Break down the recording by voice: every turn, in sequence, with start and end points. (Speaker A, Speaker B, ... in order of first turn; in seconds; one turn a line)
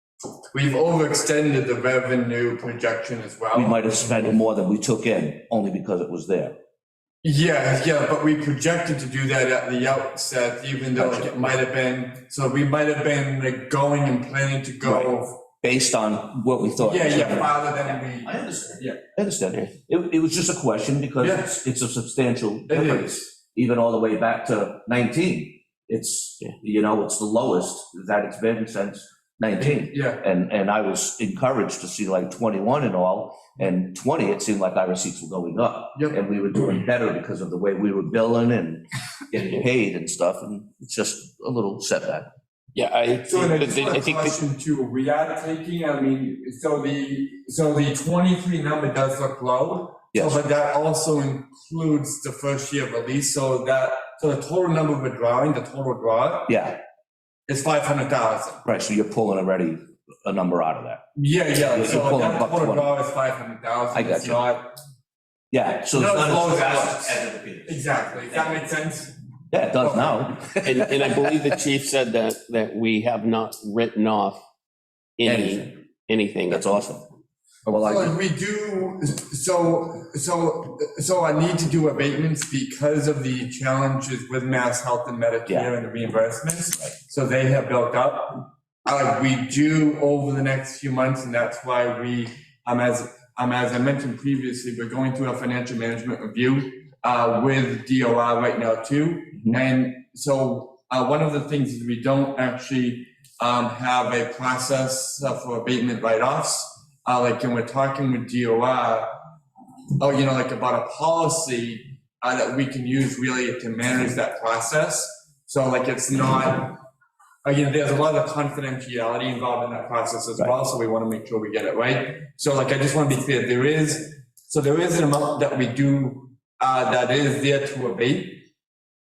Speaker A: 0.5-4.0
Speaker B: 3.5-6.5
Speaker A: 7.2-15.4
Speaker B: 11.0-11.6
Speaker B: 14.8-15.1
Speaker B: 15.6-42.3
Speaker A: 16.8-19.0
Speaker A: 21.2-21.5
Speaker A: 22.7-23.3
Speaker A: 29.6-30.2
Speaker C: 42.8-44.4
Speaker A: 43.3-56.5
Speaker B: 50.1-50.4
Speaker B: 56.5-56.8
Speaker A: 57.5-58.6
Speaker B: 58.6-61.0
Speaker A: 61.2-64.7
Speaker B: 61.5-62.9
Speaker B: 63.9-64.4
Speaker B: 65.5-68.6
Speaker A: 65.9-69.1
Speaker B: 69.5-71.6
Speaker A: 69.8-70.3
Speaker C: 70.6-74.4
Speaker C: 75.2-76.7
Speaker B: 75.2-75.7
Speaker B: 76.5-77.0
Speaker B: 77.7-78.2
Speaker A: 77.7-109.1
Speaker A: 110.0-116.8
Speaker A: 117.4-128.4